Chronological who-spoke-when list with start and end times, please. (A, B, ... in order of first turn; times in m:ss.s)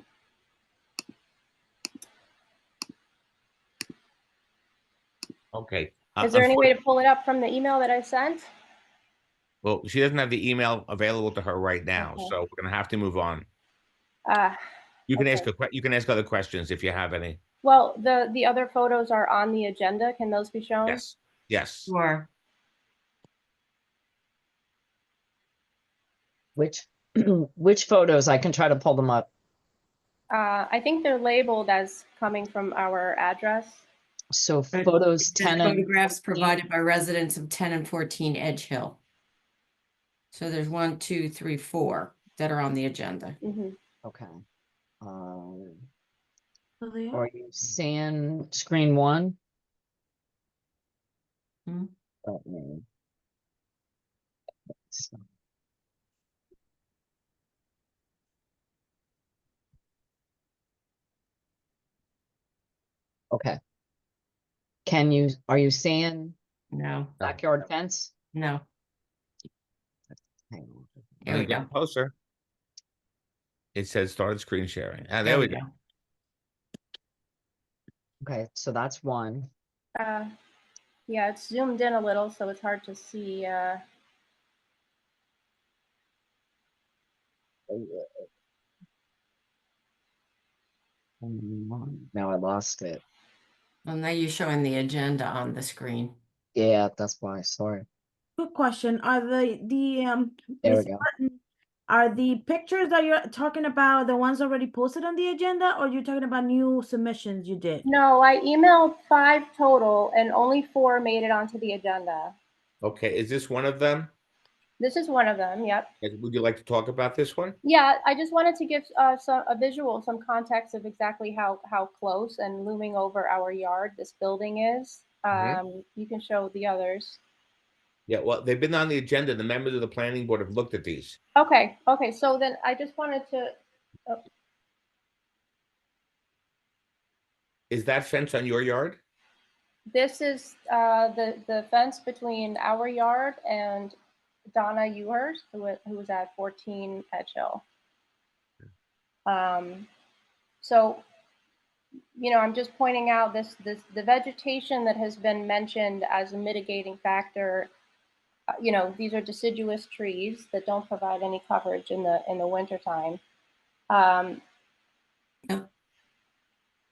0:05.5-0:06.7 A
0:06.2-0:08.5 B
0:09.6-0:13.5 A
0:12.0-0:12.3 B
0:14.3-0:14.6 B
0:15.1-0:17.4 A
0:15.1-0:15.5 B
0:17.6-0:21.0 B
0:20.9-0:21.9 A
0:21.9-0:22.3 C
0:26.6-0:29.3 D
0:30.3-0:33.8 B
0:34.3-0:35.9 D
0:34.7-0:39.0 C
0:40.3-0:43.4 C
0:43.4-0:43.8 B
0:44.0-0:44.4 D
0:45.0-0:45.8 D
0:46.8-0:47.2 E
0:47.1-0:49.4 D
0:52.2-0:52.8 D
0:54.9-0:55.2 D
1:03.3-1:03.6 D
1:04.8-1:06.4 D
1:06.7-1:07.1 C
1:07.2-1:08.1 D
1:08.3-1:08.6 C
1:10.1-1:11.0 D
1:11.2-1:11.7 C
1:11.3-1:12.1 A
1:13.8-1:15.6 A
1:15.2-1:15.7 C
1:18.2-1:19.5 D
1:20.0-1:20.3 B
1:21.1-1:23.8 B
1:27.7-1:28.3 D
1:31.2-1:33.0 D
1:33.8-1:36.2 C
1:36.6-1:37.8 D
1:38.4-1:47.8 E
1:40.6-1:41.0 D
1:47.8-1:52.4 B
1:52.8-1:54.1 A
1:54.8-1:55.9 B
1:56.0-1:57.6 A
1:57.6-2:07.2 B
2:05.3-2:05.6 A
2:08.1-2:11.2 A
2:11.4-2:13.5 B
2:17.7-2:19.0 A
2:19.9-2:24.0 B
2:24.6-2:27.6 B
2:29.3-2:29.9 B
2:30.6-2:31.0 B
2:32.2-2:37.7 B
2:38.5-2:43.2 B
2:43.9-2:44.4 B